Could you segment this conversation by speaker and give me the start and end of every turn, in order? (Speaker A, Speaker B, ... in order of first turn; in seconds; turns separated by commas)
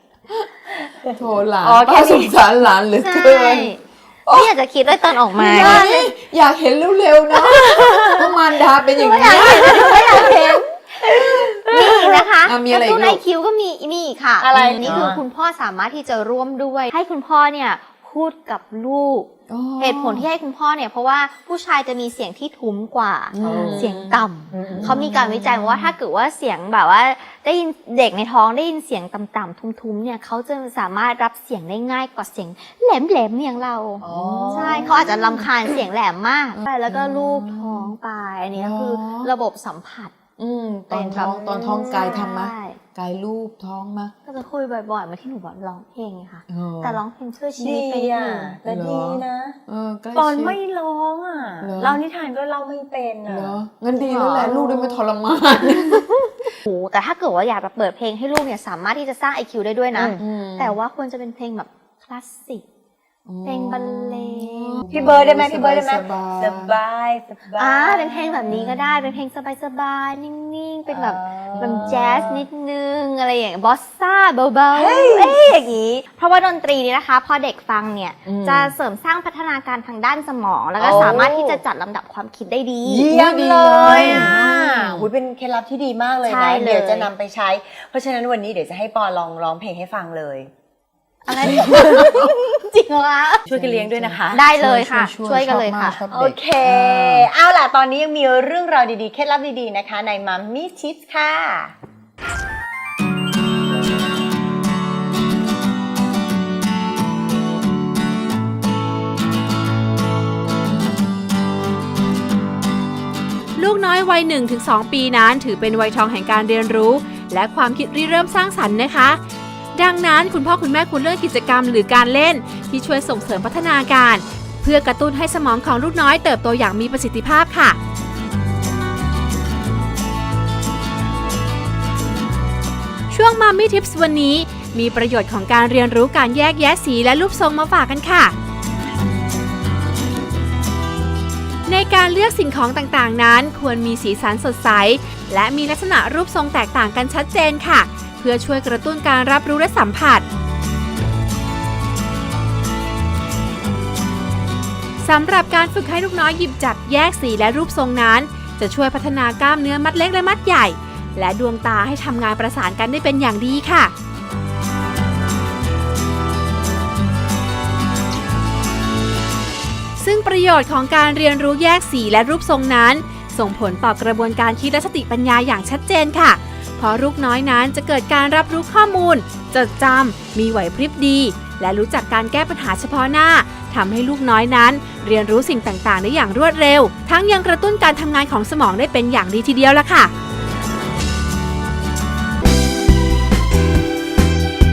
Speaker A: 1.1-3.7, Speaker B: 1.6-2.3, Speaker C: 3.0-5.9, Speaker A: 4.3-4.5, Speaker A: 5.3-11.8, Speaker B: 5.4-6.0, Speaker B: 7.8-8.1, Speaker C: 9.0-10.6, Speaker B: 9.3-10.5, Speaker B: 11.0-12.0, Speaker C: 11.7-40.1, Speaker A: 12.4-13.2, Speaker B: 14.4-15.2, Speaker A: 14.5-15.2, Speaker A: 19.5-20.2, Speaker A: 23.3-25.9, Speaker B: 23.4-23.9, Speaker B: 24.5-25.0, Speaker B: 34.0-35.2, Speaker A: 34.0-35.5, Speaker A: 36.5-38.0, Speaker A: 38.5-39.3, Speaker A: 40.4-44.1, Speaker C: 40.9-42.8, Speaker B: 41.1-42.2, Speaker C: 44.3-48.6, Speaker A: 46.5-47.0, Speaker B: 47.6-49.6, Speaker A: 48.7-50.6, Speaker B: 50.1-53.6, Speaker A: 51.6-52.0, Speaker A: 53.3-56.5, Speaker C: 54.0-55.0, Speaker C: 56.6-62.6, Speaker B: 59.9-60.2, Speaker A: 60.2-60.8, Speaker A: 63.2-66.8, Speaker C: 63.5-64.8, Speaker B: 64.9-68.5, Speaker C: 67.6-83.1, Speaker A: 68.5-69.2, Speaker B: 70.9-72.4, Speaker A: 71.7-71.9, Speaker B: 74.7-75.4, Speaker A: 78.2-78.7, Speaker B: 80.8-81.6, Speaker A: 80.9-81.2, Speaker A: 82.8-85.1, Speaker B: 82.9-90.5, Speaker C: 83.8-84.4, Speaker C: 86.2-87.1, Speaker C: 91.3-93.4, Speaker A: 91.4-92.3, Speaker B: 93.5-94.4, Speaker A: 93.5-97.3, Speaker C: 94.3-96.0, Speaker B: 96.1-101.7, Speaker D: 113.6-119.2, Speaker D: 119.8-127.8, Speaker D: 133.1-138.3, Speaker D: 141.7-150.2, Speaker D: 155.0-163.9, Speaker D: 170.0-190.1